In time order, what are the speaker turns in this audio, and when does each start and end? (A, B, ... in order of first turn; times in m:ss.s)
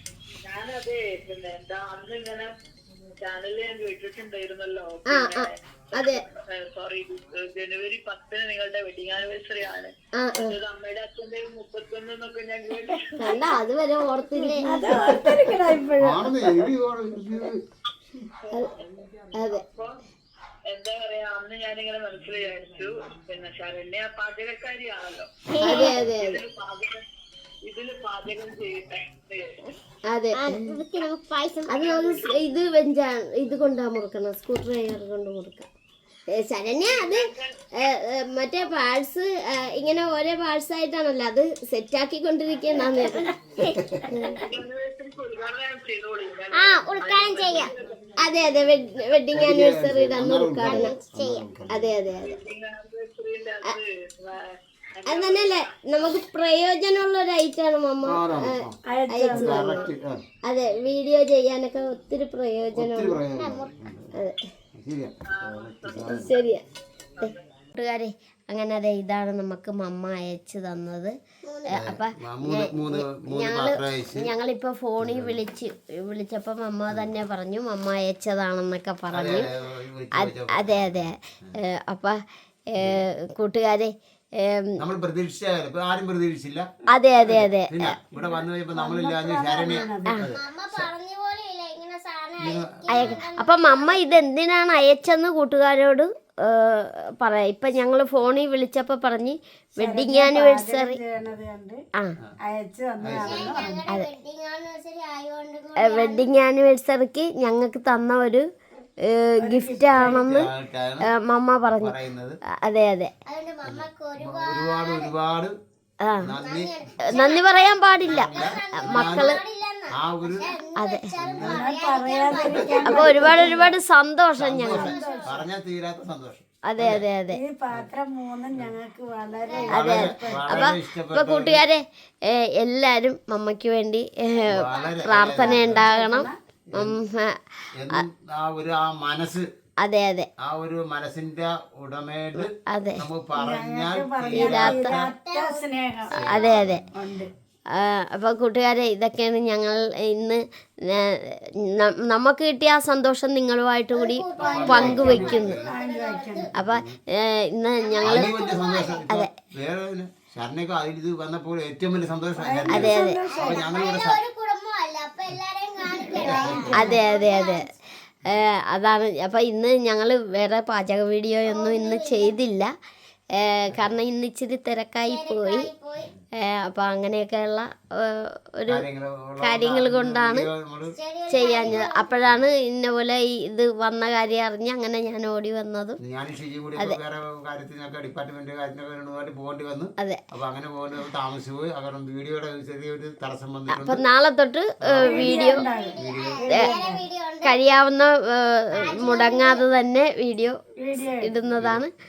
0:00.4-0:02.5 A
0:03.2-0:13.3 A
0:05.0-0:06.2 B
0:10.1-0:10.6 B
0:13.2-0:14.8 B
0:14.3-0:15.2 C
0:14.7-0:16.7 D
0:15.0-0:17.6 E
0:18.5-0:19.1 A
0:19.3-0:19.6 B
0:19.7-0:20.0 A
0:20.7-0:27.0 A
0:25.5-0:25.9 C
0:25.6-0:26.4 B
0:27.6-0:29.5 A
0:30.1-0:30.8 B
0:30.3-0:31.8 C
0:31.7-0:35.7 B
0:31.7-0:32.6 A
0:36.3-0:43.3 B
0:36.8-0:37.5 A
0:43.0-0:44.3 C
0:43.7-0:44.0 E
0:44.1-0:44.4 B
0:44.3-0:47.9 A
0:46.5-0:47.7 C
0:48.2-0:51.0 B
0:49.3-0:52.0 E
0:50.6-0:51.5 C
0:51.6-0:52.4 B
0:52.2-0:55.7 A
0:55.0-0:59.9 B
0:58.0-0:58.8 E
0:58.8-0:59.6 D
0:59.3-1:00.2 E
1:00.4-1:03.2 B
1:02.7-1:04.1 E
1:03.3-1:03.7 C
1:04.7-1:06.3 E
1:05.3-1:06.3 A
1:06.1-1:06.6 B
1:07.2-1:11.1 B
1:11.4-1:11.7 C
1:11.7-1:14.3 E
1:11.7-1:19.5 B
1:15.0-1:15.4 E
1:19.1-1:21.6 E
1:20.2-1:22.2 B
1:22.7-1:24.7 B
1:22.8-1:23.0 E
1:24.8-1:30.9 E
1:26.9-1:28.0 B
1:28.1-1:30.2 D
1:30.3-1:34.2 C
1:32.4-1:33.2 E
1:32.9-1:41.0 B
1:39.8-1:41.8 D
1:42.4-1:43.8 D
1:43.0-1:43.6 E
1:43.2-1:46.3 C
1:45.8-1:48.4 B
1:49.0-1:50.5 B
1:49.4-1:50.3 D
1:50.1-1:51.1 E
1:51.0-1:52.0 B
1:51.8-1:52.4 E
1:52.6-1:53.1 B
1:53.2-1:55.1 C
1:53.6-1:55.5 E
1:56.0-1:56.4 B
1:56.2-1:56.7 E
1:56.4-2:03.7 C
1:57.1-1:59.4 B
1:58.0-1:59.4 E
1:59.9-2:00.5 E
2:00.7-2:01.1 B
2:01.1-2:01.7 E
2:01.4-2:03.7 D
2:02.3-2:03.1 E
2:02.8-2:04.8 B
2:04.3-2:07.1 E
2:04.7-2:05.4 D
2:04.7-2:05.4 C
2:06.6-2:07.4 B
2:07.3-2:10.6 D
2:09.4-2:09.8 C
2:09.7-2:11.6 E
2:09.7-2:18.0 B
2:14.4-2:15.9 E
2:15.4-2:16.3 D
2:17.8-2:19.5 E
2:19.8-2:20.3 B
2:20.4-2:25.1 E
2:22.4-2:23.0 B
2:23.3-2:26.2 D
2:24.3-2:25.0 B
2:25.1-2:25.6 C
2:26.1-2:26.8 E
2:26.2-2:26.8 B
2:26.9-2:27.3 D
2:27.7-2:35.6 B
2:33.9-2:36.5 C
2:34.4-2:36.4 D
2:34.4-2:35.7 E
2:36.5-2:36.9 E
2:36.5-2:38.5 B
2:37.8-2:39.0 C
2:38.0-2:44.2 E
2:42.4-2:43.6 D
2:42.7-2:43.3 B
2:43.2-2:47.6 C
2:46.0-2:46.9 D
2:46.1-2:47.0 E
2:46.7-2:47.6 B
2:48.3-2:52.7 B
2:51.4-2:52.4 C
2:53.3-2:55.7 B
2:55.0-2:56.1 C
2:56.4-2:58.8 B
2:58.7-3:02.4 E
2:59.4-3:00.5 B
3:00.9-3:02.2 C
3:01.3-3:06.0 B
3:06.0-3:14.0 E
3:13.7-3:15.7 B
3:14.8-3:15.3 E
3:15.0-3:17.0 D
3:15.7-3:17.6 C
3:16.0-3:16.5 E
3:17.4-3:20.6 B
3:18.7-3:19.6 C
3:20.8-3:21.3 D
3:21.1-3:21.9 B
3:21.5-3:21.8 E